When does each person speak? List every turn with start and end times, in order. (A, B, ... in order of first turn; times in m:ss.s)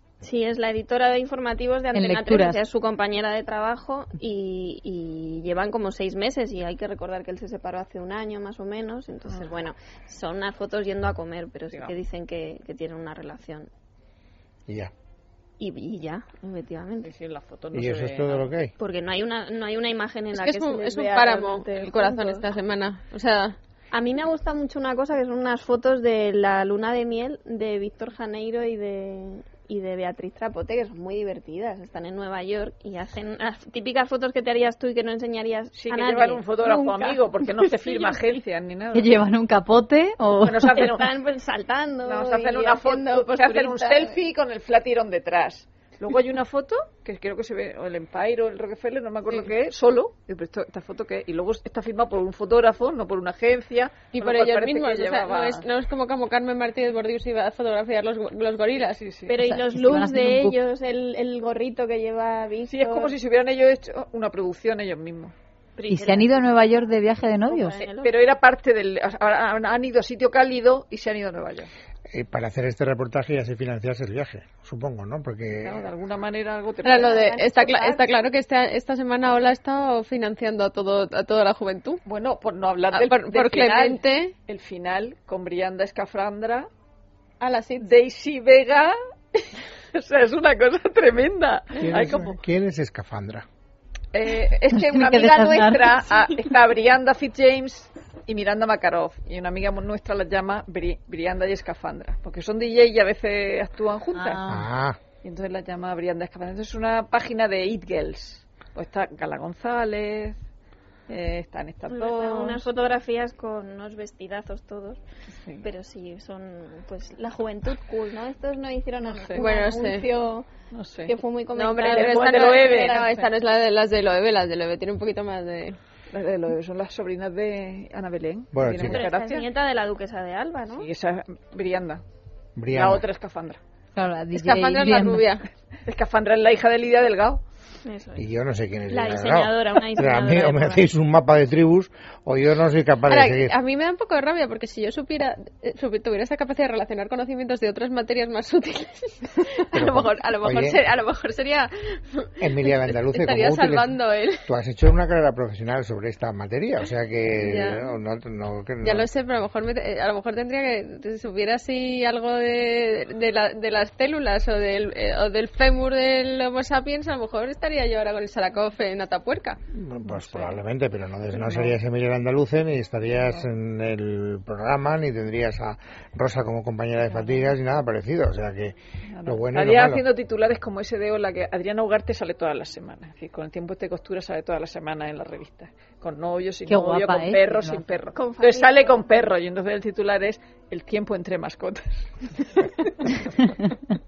0:00.2-0:13.7 A
0:01.9-0:02.6 B
0:09.3-0:09.6 C
0:14.7-0:14.9 D
0:15.6-0:17.1 A
0:17.0-0:18.5 C
0:17.7-0:18.7 D
0:18.8-0:22.5 A
0:20.3-0:23.6 E
0:23.9-0:37.2 A
0:35.7-0:39.2 C
0:38.9-0:41.0 B
0:40.4-0:41.1 C
0:40.8-0:44.2 A
0:42.0-0:55.6 C
0:54.1-0:59.0 E
0:59.0-0:59.4 C
0:59.3-1:03.1 A
0:59.4-1:00.6 B
1:02.7-1:05.3 C
1:05.8-1:08.1 A
1:05.9-1:07.8 B
1:08.0-1:11.7 C
1:12.1-1:15.8 D
1:15.6-1:18.2 C
1:16.8-1:22.0 E
1:22.1-1:26.7 C
1:22.9-1:24.3 E
1:27.4-1:27.9 E
1:27.8-1:32.3 C
1:31.8-1:33.4 D
1:34.1-1:44.4 C
1:34.7-1:36.1 B
1:44.2-1:44.7 B
1:44.5-1:45.0 D
1:45.2-1:50.4 C
1:51.1-1:52.7 C
1:51.9-1:55.0 A
1:55.6-2:00.5 A
1:59.4-2:00.1 E
2:00.7-2:01.1 C
2:01.1-2:03.1 A
2:01.5-2:05.8 E
2:01.8-2:03.3 C
2:06.1-2:09.5 C
2:08.5-2:09.0 D
2:08.8-2:10.9 A
2:10.8-2:12.0 C
2:12.6-2:13.0 D
2:12.7-2:13.6 C
2:14.0-2:15.3 B
2:14.4-2:15.5 E
2:15.9-2:17.4 C
2:17.8-2:18.3 A
2:18.2-2:23.5 D
2:18.9-2:20.9 A
2:23.1-2:34.5 E
2:29.7-2:30.8 D
2:32.4-2:39.1 D
2:37.4-2:37.9 E
2:38.8-2:49.6 E
2:49.7-3:00.0 D
2:50.1-2:50.6 C
2:51.3-2:51.8 C
2:53.2-2:53.4 C
2:57.1-2:57.5 C
2:59.1-3:12.7 C
3:06.7-3:07.8 B
3:08.1-3:09.0 A